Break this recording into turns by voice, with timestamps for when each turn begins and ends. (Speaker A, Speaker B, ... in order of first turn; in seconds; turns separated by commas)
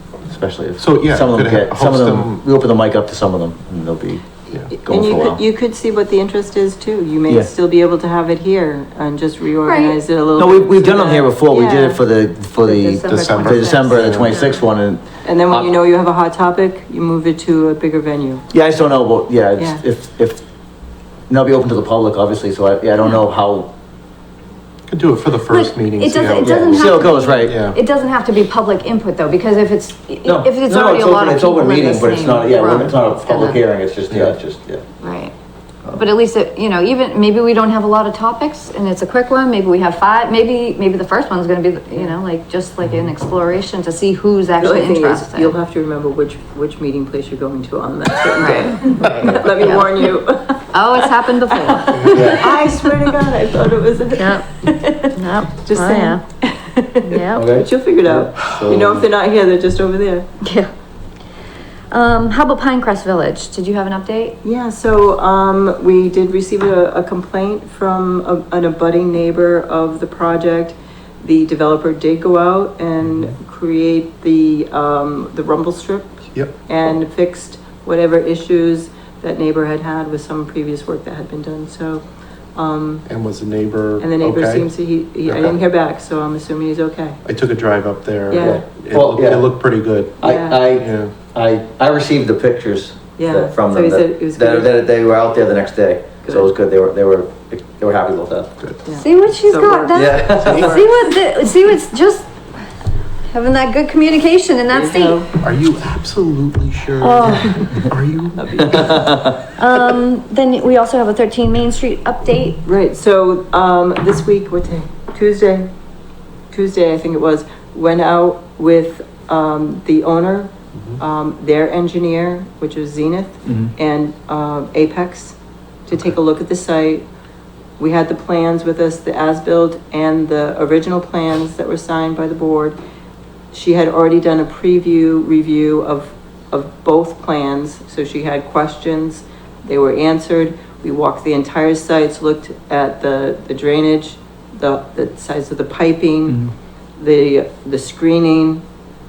Speaker A: 0.3-4.3, Speaker B: 0.8-2.4, Speaker C: 4.7-11.3, Speaker A: 4.8-5.4, Speaker D: 9.6-10.0, Speaker A: 10.4-15.7, Speaker D: 11.5-12.1, Speaker D: 12.6-14.7, Speaker B: 13.0-14.4, Speaker C: 15.2-18.4, Speaker A: 18.5-20.4, Speaker C: 19.6-19.8, Speaker A: 21.3-23.7, Speaker B: 24.9-27.8, Speaker D: 25.5-33.6, Speaker A: 26.4-27.6, Speaker A: 30.2-34.8, Speaker B: 34.1-34.4, Speaker D: 35.0-35.4, Speaker D: 35.9-45.6, Speaker C: 44.6-60.3, Speaker D: 48.4-50.1, Speaker D: 50.7-52.7, Speaker A: 52.1-52.5, Speaker D: 54.1-54.5, Speaker D: 55.1-56.2, Speaker D: 57.0-57.6, Speaker A: 57.4-59.0, Speaker D: 60.4-60.7, Speaker D: 61.9-64.4, Speaker C: 64.4-82.0, Speaker C: 82.5-83.0, Speaker B: 83.1-84.7, Speaker C: 84.0-87.2, Speaker B: 85.2-85.6, Speaker B: 87.2-91.1, Speaker C: 88.3-88.6, Speaker A: 88.4-89.5, Speaker A: 90.2-98.5, Speaker C: 90.2-90.6, Speaker C: 93.2-94.7, Speaker C: 96.2-96.5, Speaker C: 98.9-100.9, Speaker D: 98.9-102.3, Speaker A: 99.9-100.8, Speaker B: 100.5-100.8, Speaker D: 103.3-105.2, Speaker C: 104.7-105.3, Speaker B: 105.4-109.0, Speaker D: 107.0-107.8, Speaker C: 108.4-109.1, Speaker A: 108.8-109.3, Speaker D: 109.4-112.6, Speaker C: 112.7-115.7, Speaker C: 116.5-127.0, Speaker C: 127.8-132.8, Speaker C: 133.5-148.6